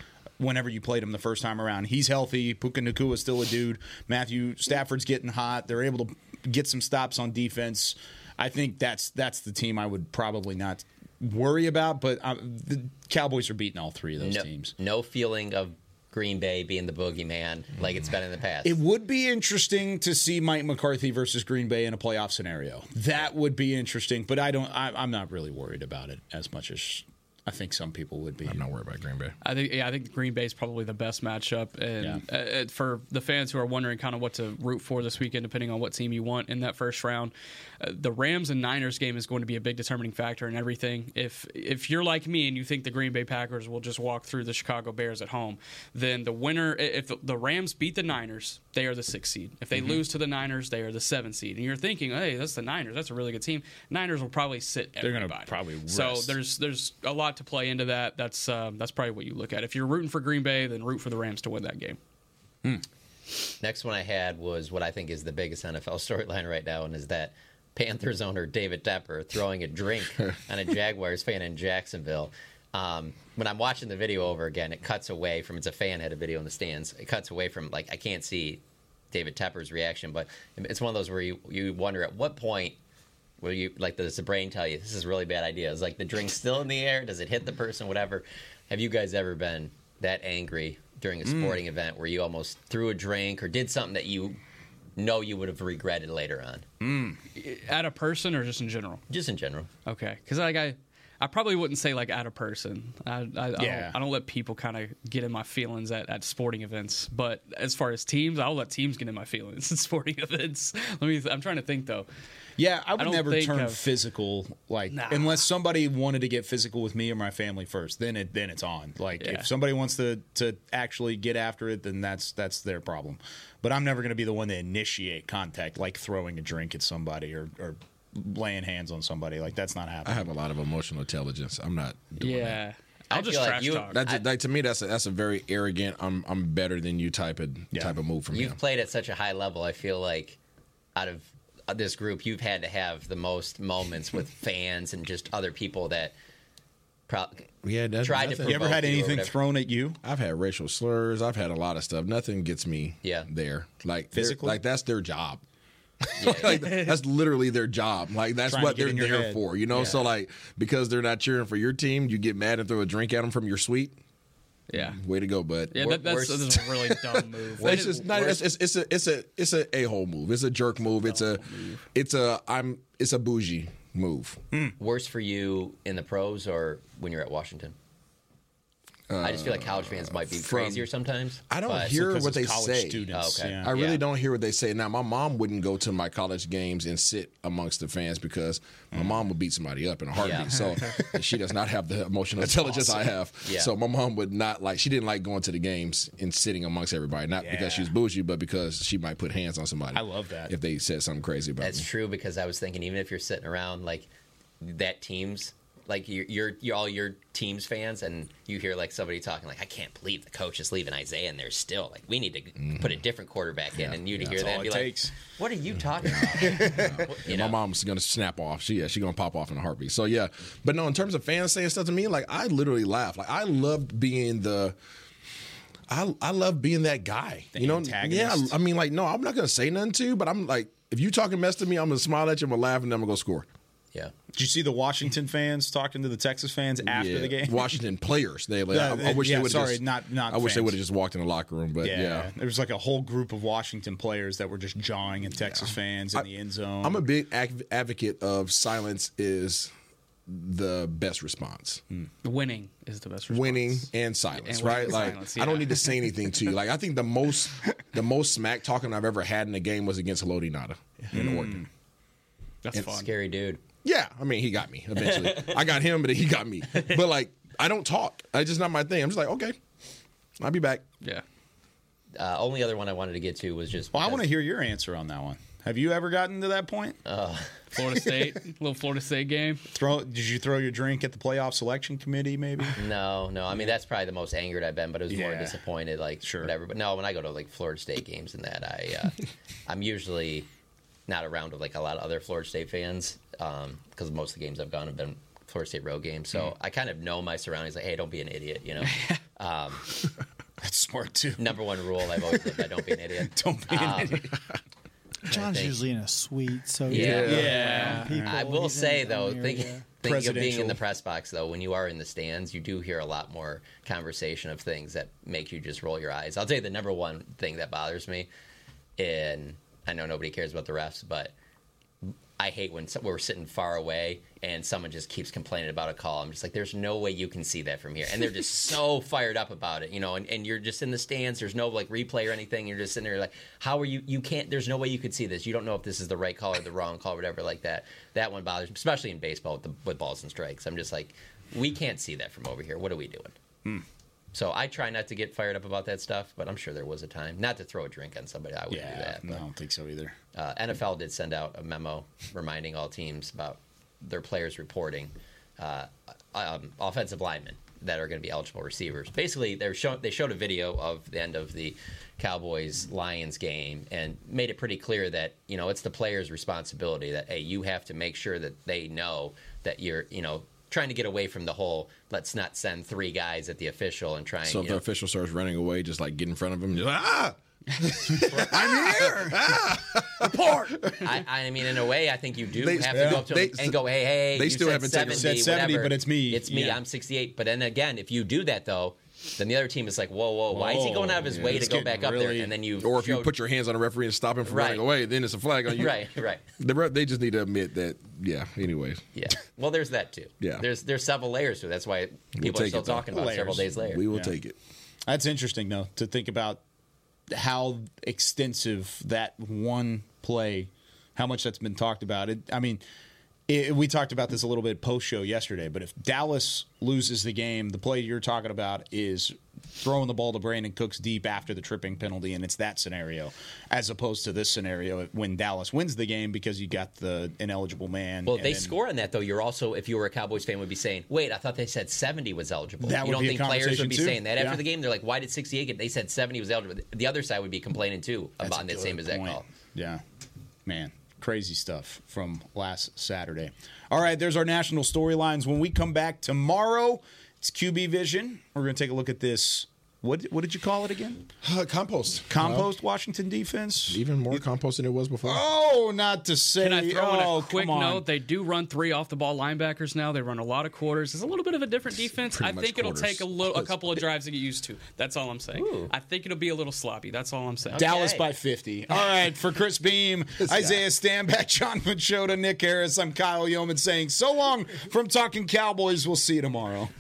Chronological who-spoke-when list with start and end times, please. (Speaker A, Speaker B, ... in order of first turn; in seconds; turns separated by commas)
Speaker A: 0.4-14.7, Speaker B: 14.2-18.8, Speaker A: 18.6-28.6, Speaker C: 28.4-29.4, Speaker D: 29.4-62.0, Speaker A: 49.8-50.0, Speaker A: 55.0-56.4, Speaker B: 63.6-82.8, Speaker B: 83.4-94.4, Speaker A: 91.2-91.6, Speaker B: 95.0-96.7, Speaker A: 96.8-97.2, Speaker D: 97.4-99.0, Speaker B: 99.1-99.7, Speaker D: 99.8-112.1, Speaker A: 103.6-104.0, Speaker A: 112.6-130.3, Speaker D: 113.0-113.9, Speaker D: 114.9-115.5, Speaker D: 119.2-119.5, Speaker C: 130.1-132.6, Speaker D: 132.2-134.0, Speaker B: 133.1-134.2, Speaker C: 133.9-138.6, Speaker A: 137.7-138.0, Speaker B: 138.3-140.4, Speaker B: 141.0-146.1, Speaker B: 147.1-147.4, Speaker C: 147.6-148.8, Speaker B: 148.0-149.3, Speaker A: 148.5-150.0, Speaker C: 150.0-155.4, Speaker B: 153.0-153.3, Speaker A: 154.1-154.6, Speaker C: 156.0-164.0, Speaker B: 156.2-156.8, Speaker D: 156.5-156.9, Speaker A: 158.5-160.0, Speaker D: 164.7-165.0, Speaker C: 164.7-166.0, Speaker D: 165.7-168.5, Speaker B: 165.8-166.6, Speaker C: 167.6-174.4, Speaker D: 171.0-171.8, Speaker B: 174.8-177.8, Speaker C: 179.1-180.9, Speaker B: 179.2-182.0, Speaker C: 181.5-201.9, Speaker A: 181.8-183.7, Speaker B: 183.1-184.0, Speaker A: 188.9-189.2, Speaker B: 190.2-190.7, Speaker A: 192.4-193.1, Speaker B: 193.4-193.7, Speaker A: 197.4-197.9, Speaker A: 199.9-200.5, Speaker B: 201.6-204.1, Speaker B: 204.6-217.6, Speaker C: 212.6-213.0, Speaker C: 213.7-214.6, Speaker A: 214.2-215.1, Speaker C: 215.9-224.8, Speaker A: 216.4-217.1, Speaker C: 225.9-233.5, Speaker A: 227.5-228.6, Speaker A: 234.3-237.8, Speaker C: 236.8-242.3, Speaker A: 238.7-240.8, Speaker A: 241.8-247.0, Speaker C: 245.4-246.3, Speaker C: 246.8-249.7, Speaker C: 250.3-251.8, Speaker D: 252.2-256.1, Speaker C: 253.3-261.6, Speaker A: 261.1-261.7, Speaker D: 262.6-263.1, Speaker B: 262.7-263.6, Speaker C: 263.8-269.6, Speaker C: 270.4-270.9, Speaker B: 272.2-274.2, Speaker A: 273.9-277.0, Speaker B: 277.1-277.6, Speaker D: 277.8-279.6, Speaker A: 279.7-282.8, Speaker B: 282.8-290.5, Speaker A: 285.1-285.6, Speaker A: 286.2-286.5, Speaker B: 291.1-299.9, Speaker A: 300.6-301.6, Speaker B: 301.4-304.2, Speaker A: 303.2-304.3, Speaker B: 305.3-305.8, Speaker E: 305.3-309.9, Speaker B: 306.9-318.3, Speaker C: 306.9-307.6, Speaker A: 307.1-308.4, Speaker D: 307.4-308.1, Speaker A: 310.0-310.8, Speaker B: 319.0-321.3, Speaker B: 322.1-343.4, Speaker B: 344.3-349.4, Speaker A: 348.7-350.2, Speaker B: 350.4-374.8, Speaker C: 374.4-381.0, Speaker A: 378.4-379.7, Speaker A: 380.2-380.7, Speaker B: 381.0-393.3, Speaker C: 382.6-385.3, Speaker A: 382.9-383.2, Speaker A: 385.1-386.8, Speaker A: 390.5-392.5, Speaker C: 391.3-391.8, Speaker C: 392.8-399.0, Speaker B: 394.4-394.8, Speaker B: 395.7-396.4, Speaker B: 399.1-404.0, Speaker C: 400.4-400.7, Speaker C: 402.4-403.1, Speaker A: 403.1-404.3, Speaker C: 403.8-404.6, Speaker A: 405.1-406.6, Speaker A: 407.3-412.8, Speaker A: 413.5-428.7, Speaker B: 428.3-439.5, Speaker A: 432.8-434.6, Speaker A: 438.4-440.0, Speaker A: 440.7-451.3, Speaker C: 451.4-452.7, Speaker A: 452.3-454.4, Speaker C: 453.9-455.4, Speaker A: 455.2-458.1, Speaker D: 456.6-467.9, Speaker C: 462.3-464.0, Speaker B: 465.6-465.9, Speaker B: 467.7-468.3, Speaker A: 467.8-476.9, Speaker C: 470.4-470.8